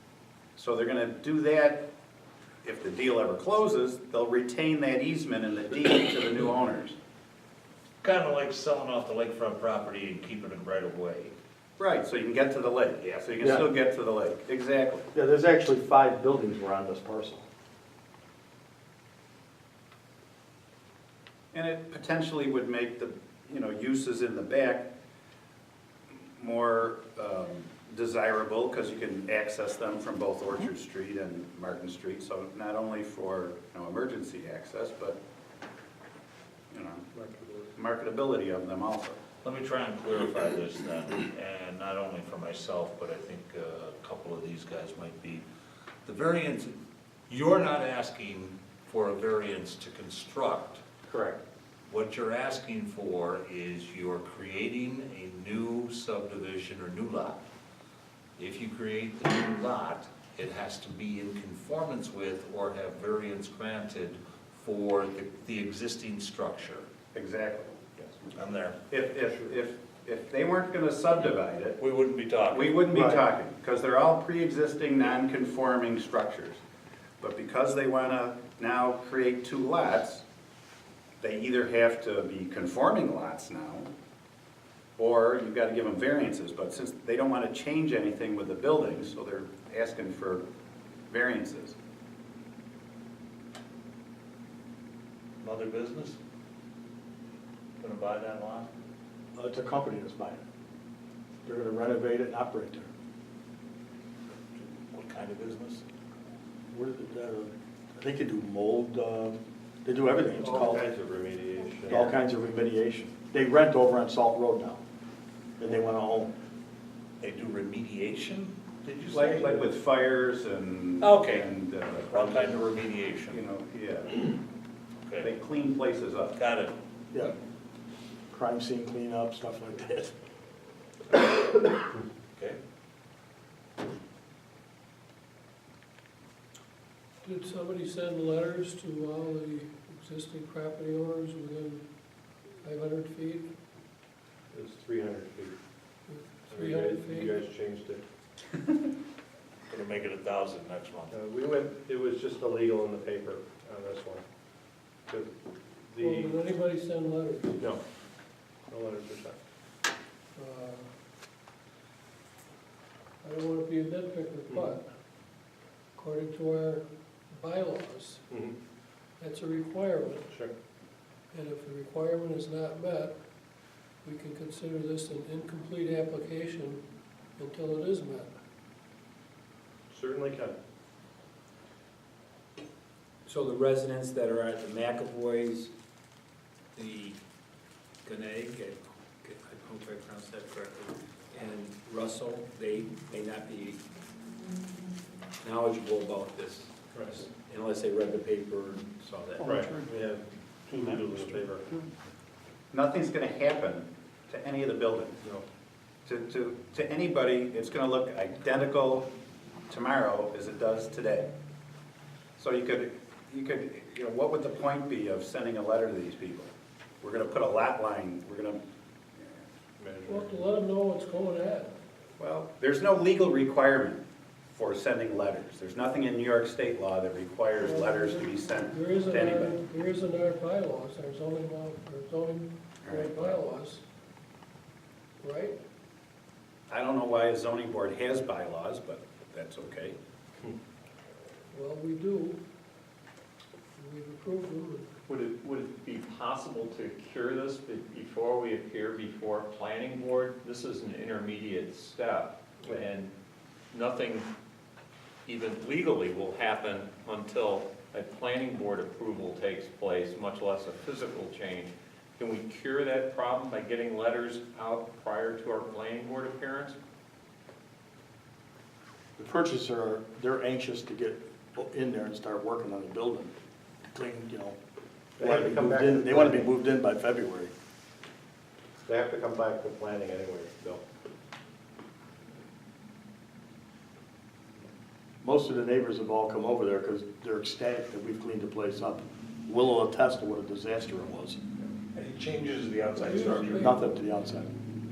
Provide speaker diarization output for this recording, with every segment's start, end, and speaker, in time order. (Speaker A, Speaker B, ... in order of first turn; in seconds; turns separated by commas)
Speaker A: 0.6-1.9, Speaker A: 2.6-7.0, Speaker B: 8.0-11.3, Speaker A: 11.8-15.1, Speaker C: 13.4-13.7, Speaker C: 15.1-17.4, Speaker A: 21.5-24.9, Speaker A: 26.2-35.2, Speaker A: 36.7-37.0, Speaker D: 37.1-37.7, Speaker A: 37.7-39.2, Speaker B: 39.4-45.4, Speaker B: 46.0-46.7, Speaker B: 47.3-50.8, Speaker E: 51.1-51.4, Speaker B: 51.9-57.4, Speaker B: 58.4-66.8, Speaker A: 67.1-67.8, Speaker B: 68.3-68.8, Speaker A: 68.9-71.8, Speaker B: 71.8-72.8, Speaker A: 72.5-76.6, Speaker C: 72.9-73.2, Speaker A: 77.2-80.2, Speaker A: 81.2-83.9, Speaker A: 85.0-90.4, Speaker A: 91.1-91.8, Speaker B: 95.4-96.2, Speaker B: 97.8-98.7, Speaker C: 99.3-100.4, Speaker C: 101.4-102.9, Speaker B: 104.6-105.8, Speaker C: 106.7-110.8, Speaker D: 110.4-112.1, Speaker C: 111.9-114.8, Speaker C: 115.6-116.3, Speaker B: 117.2-119.7, Speaker A: 119.1-122.7, Speaker B: 121.0-123.4, Speaker A: 123.3-124.3, Speaker A: 125.2-126.4, Speaker B: 126.3-126.7, Speaker C: 128.3-130.1, Speaker F: 137.2-141.8, Speaker F: 142.6-143.5, Speaker D: 144.5-145.6, Speaker F: 146.1-147.4, Speaker D: 146.5-148.0, Speaker B: 149.7-151.2, Speaker D: 151.1-154.2, Speaker D: 155.1-155.3, Speaker D: 155.9-156.4, Speaker F: 156.0-157.6, Speaker D: 158.7-159.4, Speaker F: 160.3-160.9, Speaker F: 163.2-164.9, Speaker F: 165.9-168.2, Speaker D: 168.3-168.5, Speaker F: 169.2-170.3, Speaker F: 171.3-173.1, Speaker F: 174.0-176.8, Speaker F: 177.4-178.3, Speaker D: 179.9-180.6, Speaker G: 183.2-185.7, Speaker G: 186.8-187.2, Speaker G: 188.0-193.8, Speaker G: 195.4-199.6, Speaker D: 199.4-201.7, Speaker A: 202.7-205.2, Speaker A: 206.1-209.1, Speaker A: 209.7-211.3, Speaker A: 212.4-218.6, Speaker D: 219.8-220.4, Speaker F: 220.1-221.7, Speaker A: 222.2-229.6, Speaker F: 227.6-233.8, Speaker A: 232.8-233.4, Speaker F: 235.2-235.6, Speaker A: 236.7-240.0, Speaker F: 241.5-242.4, Speaker F: 243.8-244.9, Speaker E: 245.1-253.1, Speaker E: 253.7-254.3, Speaker E: 255.2-266.8, Speaker C: 269.2-273.3, Speaker C: 273.9-274.6, Speaker C: 275.2-277.5, Speaker D: 275.2-276.5, Speaker D: 278.8-280.8, Speaker C: 285.2-291.4, Speaker B: 291.9-293.6, Speaker F: 292.9-293.9, Speaker C: 293.4-294.5